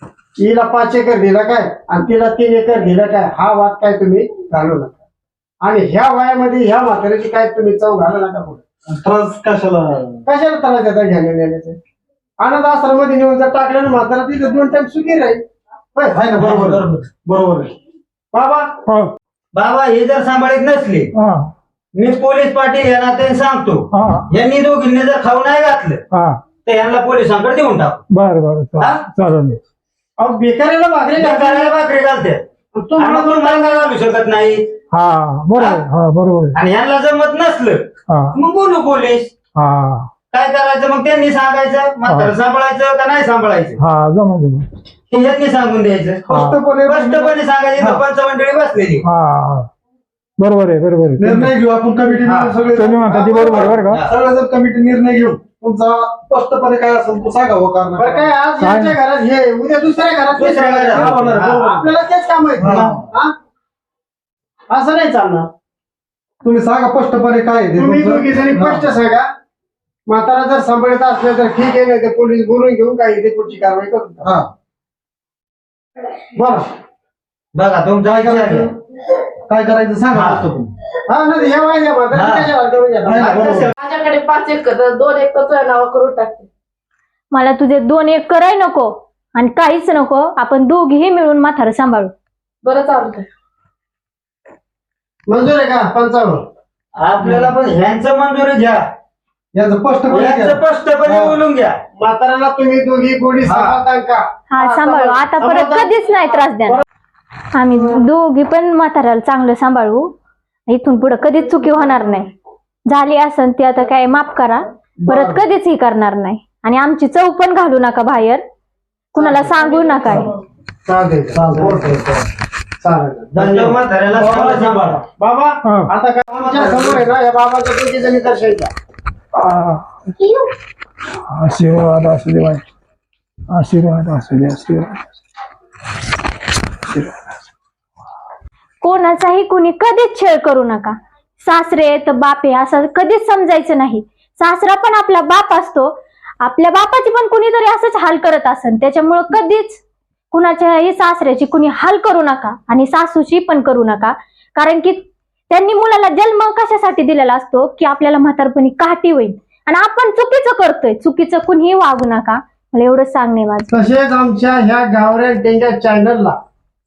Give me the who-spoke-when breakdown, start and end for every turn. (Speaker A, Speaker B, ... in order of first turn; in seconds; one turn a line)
Speaker A: 0.4-4.9
Speaker A: 5.6-8.6
Speaker B: 8.9-10.2
Speaker A: 10.2-11.8
Speaker A: 12.4-15.4
Speaker A: 15.9-16.2
Speaker B: 16.1-17.7
Speaker C: 16.4-17.1
Speaker A: 18.3-18.7
Speaker D: 18.9-19.1
Speaker C: 19.5-21.1
Speaker D: 21.1-21.5
Speaker C: 21.9-26.0
Speaker D: 23.9-24.3
Speaker D: 26.1-26.4
Speaker C: 26.6-28.0
Speaker D: 28.1-29.6
Speaker A: 30.2-31.7
Speaker C: 31.2-32.4
Speaker A: 32.7-33.9
Speaker C: 33.0-34.7
Speaker D: 34.9-36.6
Speaker C: 35.5-35.8
Speaker C: 36.5-39.3
Speaker D: 38.1-38.4
Speaker D: 39.5-40.1
Speaker C: 40.3-43.8
Speaker D: 42.0-42.3
Speaker D: 43.8-44.6
Speaker C: 45.1-46.2
Speaker B: 46.2-48.0
Speaker D: 46.3-46.6
Speaker C: 46.9-49.0
Speaker D: 49.0-49.7
Speaker D: 50.4-51.5
Speaker B: 51.2-58.3
Speaker C: 52.2-52.5
Speaker D: 52.7-54.0
Speaker A: 58.0-60.9
Speaker D: 58.6-59.0
Speaker C: 60.3-61.6
Speaker B: 60.4-61.9
Speaker A: 61.5-63.3
Speaker B: 62.6-63.0
Speaker A: 64.7-65.5
Speaker B: 66.4-68.8
Speaker A: 67.8-69.3
Speaker A: 70.1-74.3
Speaker B: 74.2-74.5
Speaker A: 76.3-76.6
Speaker C: 77.5-78.7
Speaker B: 78.0-78.7
Speaker B: 79.5-80.7
Speaker C: 80.1-80.5
Speaker A: 81.1-83.5
Speaker C: 82.1-82.5
Speaker B: 83.0-83.7
Speaker C: 83.2-83.7
Speaker E: 83.8-86.5
Speaker F: 87.3-92.1
Speaker E: 92.6-93.2
Speaker A: 95.3-96.4
Speaker C: 97.0-98.8
Speaker B: 99.5-101.4
Speaker C: 100.1-101.8
Speaker A: 102.0-104.2
Speaker C: 103.4-103.8
Speaker F: 104.5-106.8
Speaker E: 104.6-105.2
Speaker A: 105.4-105.9
Speaker F: 107.5-110.1
Speaker F: 110.7-112.3
Speaker F: 112.9-118.4
Speaker A: 115.0-115.4
Speaker F: 119.1-120.3
Speaker A: 119.2-119.5
Speaker E: 119.8-120.2
Speaker A: 120.8-121.9
Speaker C: 121.3-122.3
Speaker A: 122.8-128.7
Speaker C: 123.3-125.0
Speaker D: 125.6-125.9
Speaker C: 126.3-127.0
Speaker D: 129.3-129.8
Speaker D: 131.3-132.6
Speaker D: 133.5-134.9
Speaker D: 136.9-137.3
Speaker F: 138.8-149.8
Speaker F: 150.3-163.7
Speaker A: 163.7-166.4